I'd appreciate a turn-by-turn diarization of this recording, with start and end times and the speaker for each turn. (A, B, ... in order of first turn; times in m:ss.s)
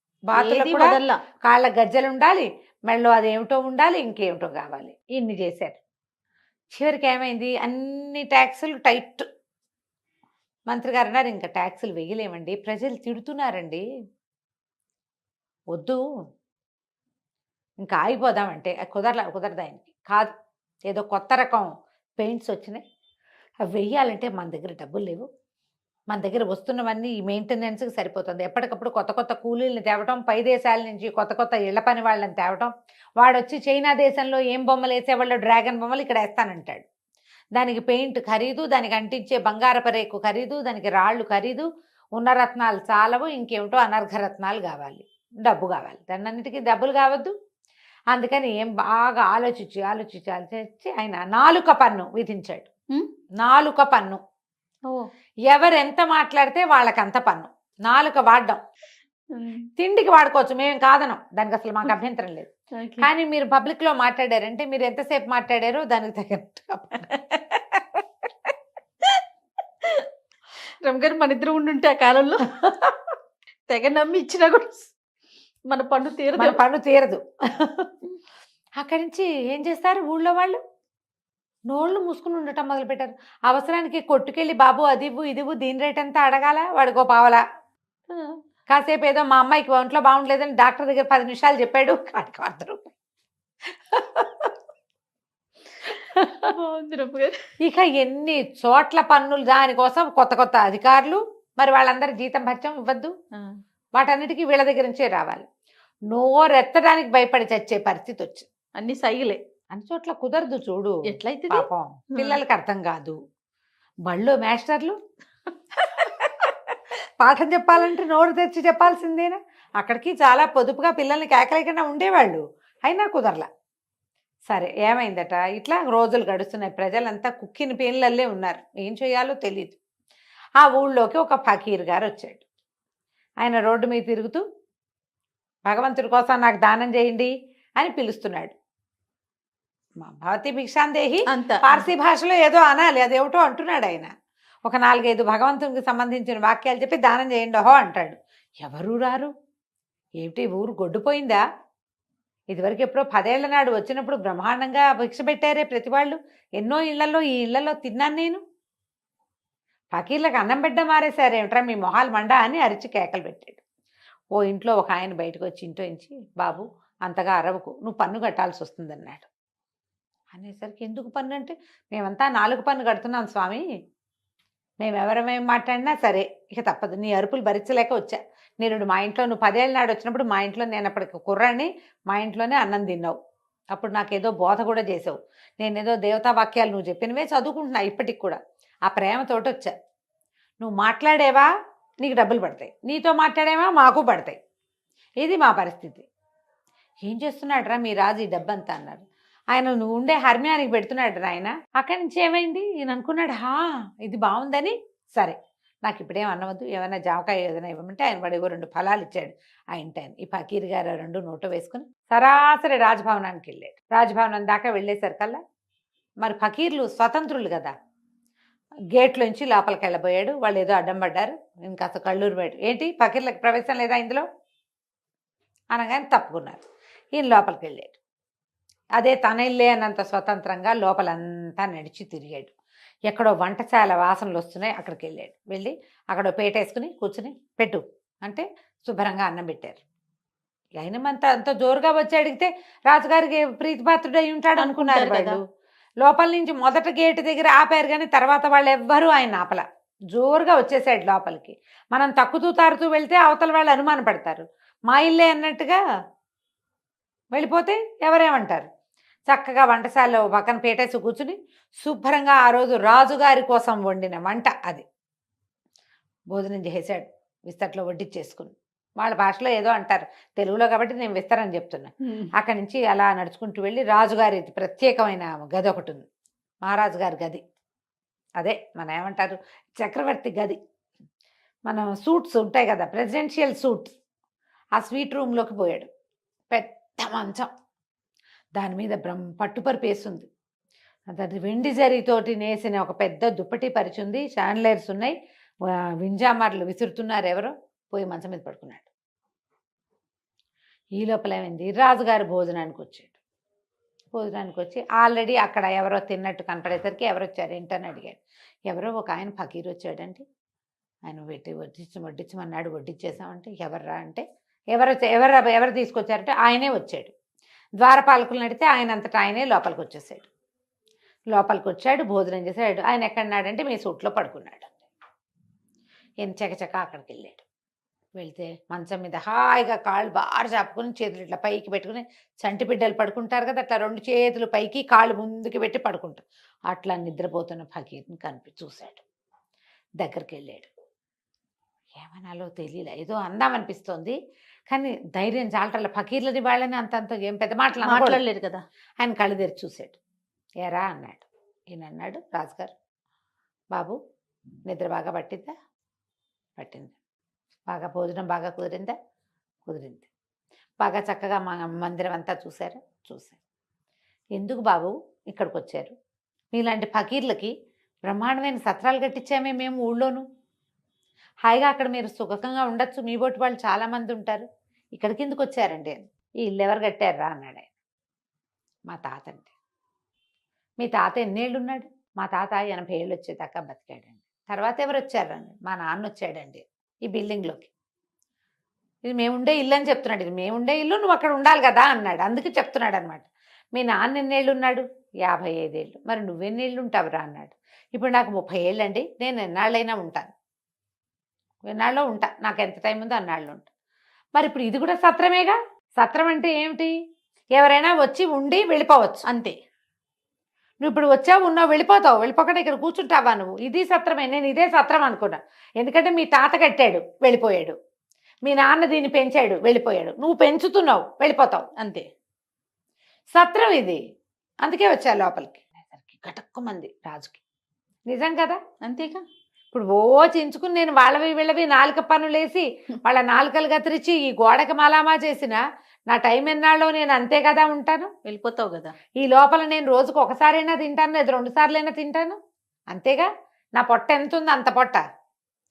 0:00.3-0:05.8 A
0:00.4-0:01.2 B
0:06.7-0:09.2 A
0:10.7-0:13.8 A
0:15.7-0:16.0 A
0:17.8-0:20.3 A
0:20.9-0:22.8 A
0:23.7-0:25.2 A
0:26.1-0:36.8 A
0:37.6-0:47.3 A
0:48.1-0:52.7 A
0:53.4-0:54.2 A
0:55.5-0:58.6 A
0:59.3-0:59.6 B
0:59.8-1:02.5 A
1:02.8-1:03.1 B
1:03.0-1:07.0 A
1:10.8-1:12.8 B
1:13.7-1:14.9 B
1:15.7-1:16.5 B
1:16.4-1:17.9 A
1:18.8-1:20.6 A
1:21.7-1:27.4 A
1:28.7-1:32.9 A
1:33.7-1:34.5 A
1:35.9-1:36.5 A
1:36.5-1:37.3 B
1:37.6-1:43.1 A
1:44.0-1:45.4 A
1:46.1-1:48.5 A
1:48.8-1:49.4 B
1:49.7-1:53.2 A
1:51.2-1:51.6 B
1:54.0-1:55.0 A
1:56.0-1:56.5 A
1:57.2-2:03.5 A
2:04.5-2:09.8 A
2:10.6-2:12.4 A
2:13.4-2:14.4 A
2:15.6-2:18.5 A
2:20.0-2:24.1 A
2:21.4-2:21.8 B
2:24.6-2:29.3 A
2:30.2-2:31.4 A
2:32.5-2:38.4 A
2:39.9-2:43.6 A
2:44.4-2:49.3 A
2:50.3-2:53.6 A
2:54.8-3:03.2 A
3:03.7-3:09.7 A
3:10.6-3:11.5 A
3:12.0-3:14.4 A
3:15.2-3:16.0 A
3:17.0-3:35.4 A
3:36.2-3:37.7 A
3:38.9-3:44.2 A
3:45.7-3:46.6 A
3:47.1-3:48.0 A
3:49.0-3:52.5 A
3:53.1-3:59.8 A
4:00.8-4:05.4 A
4:04.7-4:05.3 B
4:06.0-4:15.8 A
4:17.3-4:18.6 A
4:19.3-4:24.8 A
4:26.3-4:36.0 A
4:36.6-4:37.4 A
4:38.4-4:40.6 A
4:41.7-4:43.9 A
4:44.8-4:45.9 A
4:46.5-4:47.5 A
4:48.6-4:50.3 A
4:51.1-4:55.1 A
4:55.7-4:58.9 A
5:01.0-5:03.1 A
5:04.1-5:10.2 A
5:11.1-5:17.1 A
5:17.8-5:20.3 A
5:21.3-5:24.8 A
5:26.2-5:27.4 A
5:28.2-5:39.0 A
5:40.0-5:40.7 A
5:42.0-5:44.2 A
5:44.7-5:48.2 A
5:47.8-5:48.6 B
5:49.0-5:50.0 A
5:50.6-5:52.7 A
5:54.7-5:55.5 A
5:56.6-5:56.9 A
5:57.7-5:58.9 A
5:59.6-6:00.1 A
6:00.8-6:03.4 A
6:04.4-6:05.9 A
6:06.5-6:07.5 A
6:08.0-6:10.2 A
6:11.4-6:17.7 A
6:18.9-6:19.5 A
6:20.8-6:27.7 A
6:29.1-6:40.3 A
6:41.7-6:43.7 A
6:44.4-6:46.9 A
6:47.6-6:49.2 A
6:50.8-6:57.7 A
6:58.4-7:01.6 A
7:03.3-7:04.0 A
7:04.6-7:07.4 A
7:08.1-7:08.6 A
7:08.8-7:09.2 B
7:09.7-7:18.1 A
7:18.3-7:18.9 B
7:19.2-7:22.4 A
7:22.9-7:25.0 A